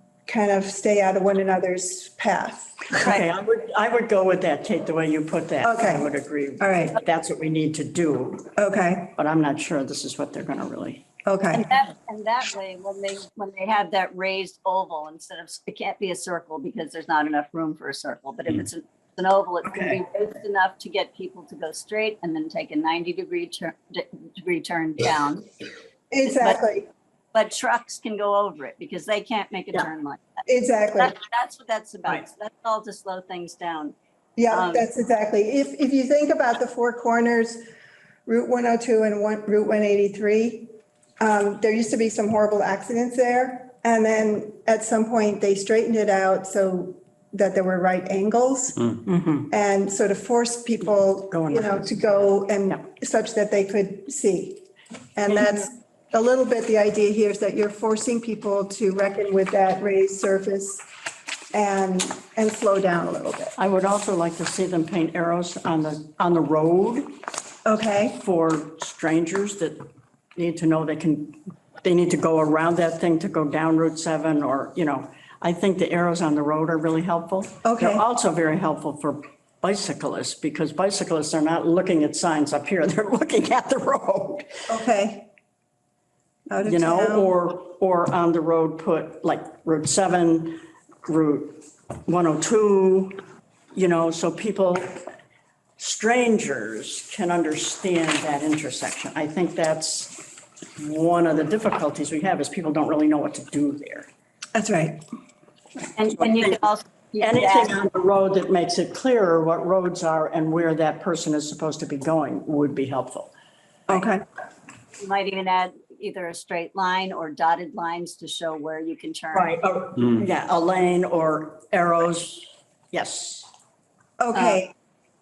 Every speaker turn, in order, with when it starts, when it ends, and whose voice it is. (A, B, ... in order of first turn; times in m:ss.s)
0:00.2-0:03.1 A
0:02.9-0:08.5 B
0:05.6-0:07.0 A
0:08.6-0:09.1 A
0:09.2-0:11.0 B
0:11.2-0:11.7 A
0:11.5-0:25.6 C
0:19.6-0:20.0 B
0:26.1-0:26.9 A
0:26.2-0:26.6 C
0:27.3-0:30.4 C
0:30.5-0:31.2 A
0:31.0-0:33.9 C
0:34.4-0:37.6 A
0:34.5-0:34.9 C
0:38.2-0:48.9 A
0:49.0-0:49.5 B
0:49.5-0:54.6 A
0:51.3-0:51.9 B
0:55.2-1:00.8 A
0:55.3-0:55.6 B
1:01.5-1:03.5 A
1:03.6-1:07.1 B
1:07.6-1:08.2 A
1:08.1-1:09.8 B
1:10.4-1:24.6 B
1:17.6-1:18.0 A
1:24.7-1:25.3 A
1:26.5-1:27.3 A
1:26.6-1:33.2 B
1:33.7-1:35.1 B
1:35.8-1:40.2 B
1:40.8-1:44.1 B
1:44.5-1:45.0 A
1:46.0-1:47.8 C
1:46.2-1:46.6 B
1:47.2-1:53.3 B
1:53.9-1:54.2 A
1:55.0-1:59.5 C
1:59.3-2:03.5 B
2:04.2-2:04.7 A
2:04.3-2:04.6 C